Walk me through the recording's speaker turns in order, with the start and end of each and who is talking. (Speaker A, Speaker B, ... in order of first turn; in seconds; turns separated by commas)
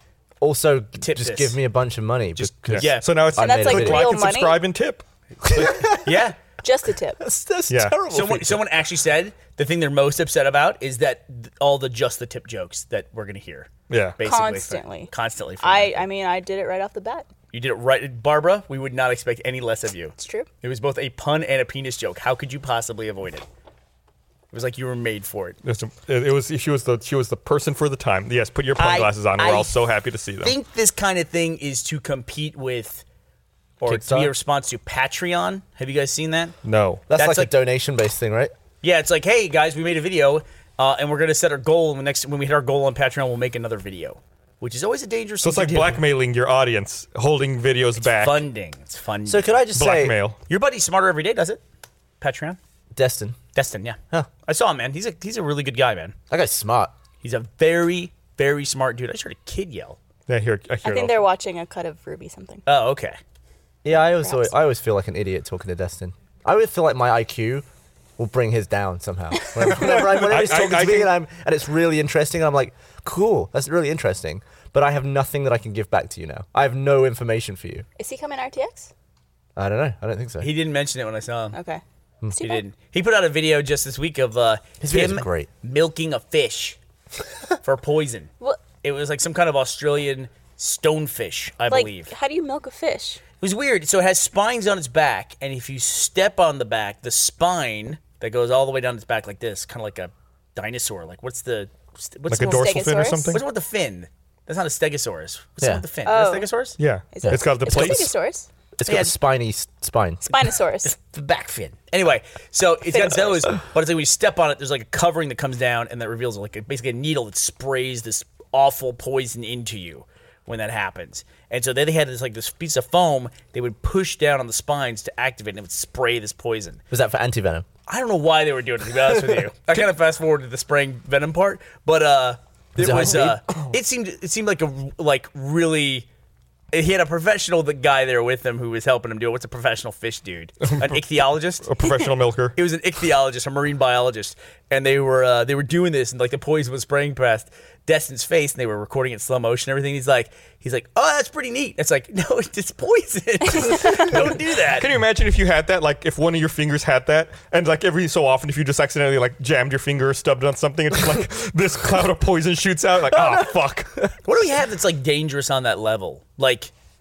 Speaker A: 0.4-4.1, Speaker B: 1.0-1.5, Speaker B: 2.4-4.3, Speaker C: 2.7-5.8, Speaker D: 3.4-4.6, Speaker A: 5.4-6.3, Speaker B: 5.9-6.3, Speaker D: 6.6-7.2, Speaker A: 7.2-8.7, Speaker C: 7.7-8.0, Speaker B: 8.1-16.1, Speaker C: 13.9-14.2, Speaker D: 14.2-15.1, Speaker D: 15.6-17.2, Speaker B: 17.5-23.4, Speaker D: 20.2-20.5, Speaker B: 24.5-25.6, Speaker C: 25.6-30.5, Speaker B: 28.8-29.8, Speaker B: 30.4-33.0, Speaker B: 33.8-36.6, Speaker A: 33.9-34.3, Speaker C: 36.6-37.0, Speaker A: 37.1-38.5, Speaker B: 37.1-37.5, Speaker B: 38.8-46.0, Speaker C: 45.4-48.4, Speaker B: 48.0-49.6, Speaker A: 49.2-50.2, Speaker C: 49.7-50.4, Speaker B: 50.5-51.6, Speaker B: 52.2-52.6, Speaker A: 52.9-53.4, Speaker B: 53.5-56.1, Speaker A: 56.3-56.9, Speaker B: 57.2-60.0, Speaker C: 60.3-61.2, Speaker D: 60.8-62.6, Speaker B: 62.6-63.2, Speaker A: 63.8-67.6, Speaker D: 63.9-64.5, Speaker A: 68.2-77.8, Speaker C: 69.7-71.1, Speaker D: 78.0-78.9, Speaker A: 79.5-80.5, Speaker B: 80.4-81.6, Speaker D: 81.5-82.6, Speaker B: 82.4-86.8, Speaker A: 84.8-85.5, Speaker B: 87.6-92.1, Speaker D: 91.7-93.2, Speaker B: 93.4-102.7, Speaker C: 102.3-103.4, Speaker D: 102.4-103.4, Speaker B: 103.3-106.8, Speaker D: 106.0-106.5, Speaker C: 106.8-108.1, Speaker D: 107.1-108.5, Speaker A: 107.2-108.1, Speaker A: 108.8-110.2, Speaker B: 108.8-109.1, Speaker D: 110.3-110.9, Speaker B: 110.8-126.8, Speaker D: 112.8-113.5, Speaker A: 126.9-127.6, Speaker B: 127.9-136.1, Speaker A: 132.8-133.4, Speaker B: 136.7-141.8, Speaker C: 140.6-141.0, Speaker C: 141.6-142.6, Speaker B: 142.5-154.9, Speaker D: 153.5-154.1, Speaker C: 154.1-163.9, Speaker A: 163.1-164.1, Speaker B: 164.2-166.7